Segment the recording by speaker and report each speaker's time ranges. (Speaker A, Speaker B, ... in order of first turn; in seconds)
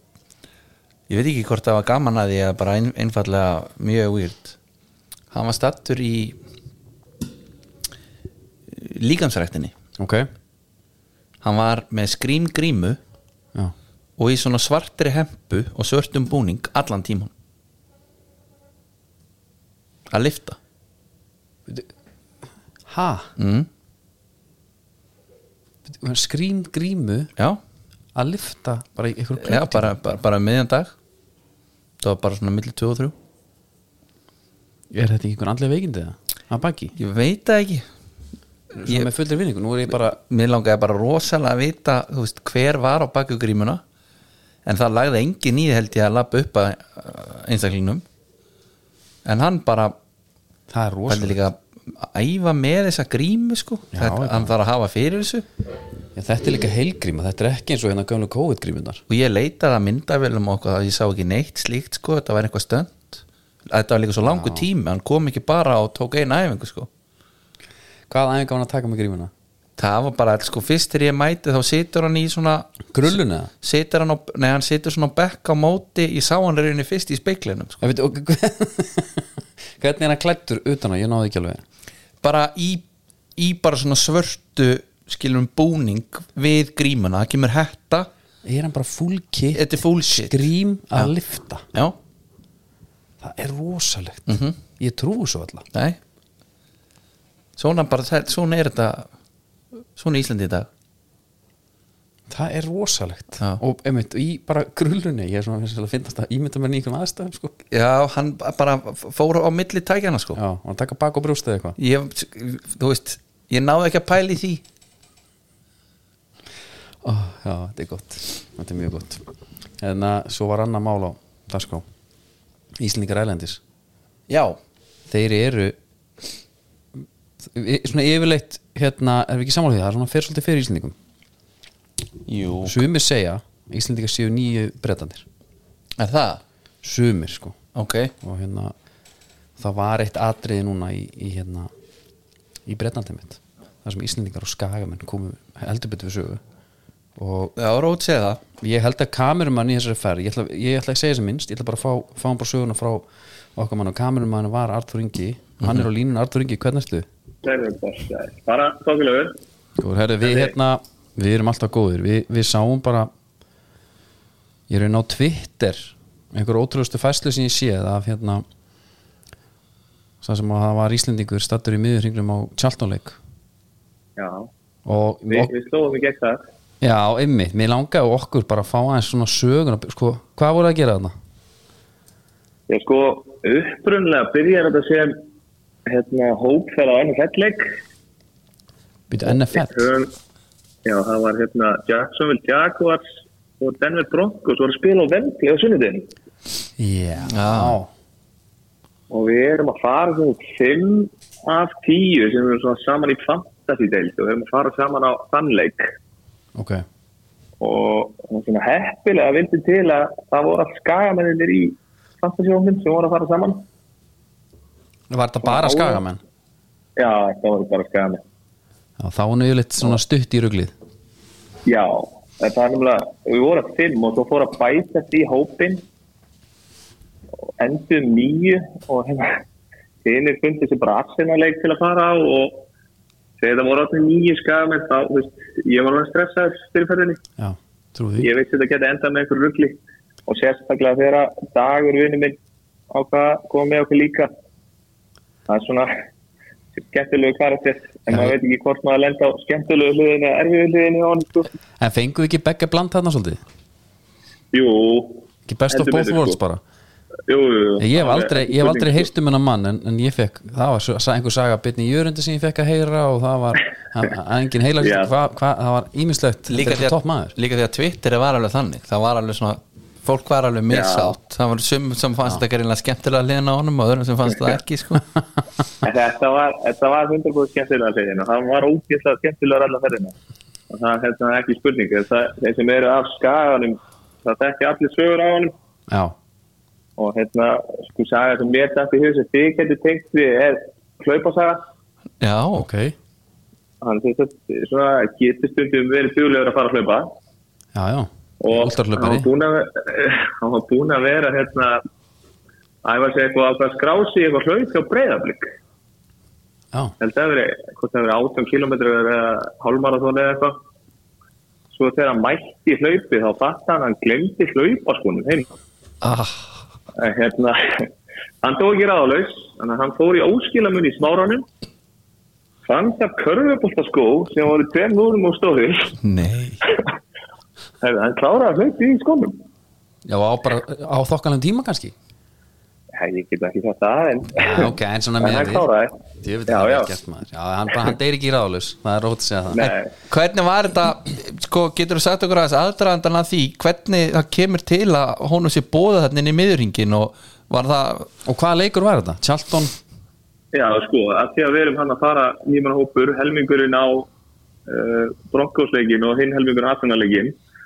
Speaker A: 1.1-4.5, 5.3-6.4, 8.7-9.7, 11.4-13.0, 14.2-17.3, 20.1-20.6, 23.4-23.7, 29.4-30.9, 32.0-33.1, 37.0-37.8, 38.8-39.1, 40.0-43.8, 44.6-48.0, 49.2-49.9, 51.1-55.5, 59.1-66.9, 69.8-77.8, 82.2-82.8, 83.3-88.1, 89.5-90.4, 94.3-94.5, 95.7-96.0, 97.6-99.1, 100.0-100.7, 107.7-110.4, 111.8-114.6, 124.3-124.6, 132.3-132.8, 136.0-136.4, 137.7-138.1, 147.6-148.4, 155.6-155.8, 197.3-197.8, 266.5-275.0, 292.2-292.7, 316.0-316.4, 326.0-326.6, 339.6-348.1
Speaker B: 10.0-10.3, 22.9-23.3, 25.9-27.3, 28.1-29.9, 34.9-36.9, 38.8-40.2, 50.7-51.4, 53.9-54.5, 56.1-59.0, 64.2-64.7, 68.1-69.3, 72.9-73.5, 77.8-81.6, 88.4-91.6, 93.2-95.7, 102.3-107.5, 110.3-111.8, 117.0-119.2, 119.8-121.8, 122.8-123.6, 125.1-125.8, 127.4-130.9, 132.6-135.2, 136.8-137.6, 138.2-138.7, 139.6-141.7, 142.7-146.4, 147.2-147.5, 148.6-157.1, 159.8-163.1, 164.7-168.4, 170.2-173.2, 174.8-175.5, 176.8-181.1, 189.1-189.8, 196.8-197.9, 206.5-206.8, 215.1-216.2, 219.0-220.7, 237.4-238.3, 251.8-253.4, 255.5-256.6, 257.8-267.3, 285.9-286.1, 292.5-292.9, 297.7-299.3, 330.1-331.9, 334.4-335.6, 336.2-339.6, 348.2-349.7
Speaker C: 157.4-159.4, 174.2-174.5, 175.3-176.4, 182.7-185.2, 185.9-187.8, 189.2-190.1, 190.8-193.0, 193.6-196.1, 199.1-205.9, 207.6-213.6, 215.4-216.0, 217.0-218.2, 221.7-225.8, 227.6-229.4, 230.0-232.7, 233.4-237.2, 238.2-242.4, 242.9-244.3, 245.5-245.9, 246.7-251.5, 254.5-256.4, 257.3-259.1, 264.8-265.1, 270.7-271.1, 275.8-280.1, 280.7-285.5, 287.0-291.6, 293.8-297.1, 298.4-301.8, 302.8-305.5, 307.0-310.6, 311.7-315.5, 316.9-317.9, 318.4-321.4, 322.6-325.9, 327.8-329.4, 332.9-335.9, 336.5-336.9, 339.5-339.9, 350.5-354.1, 354.7-357.3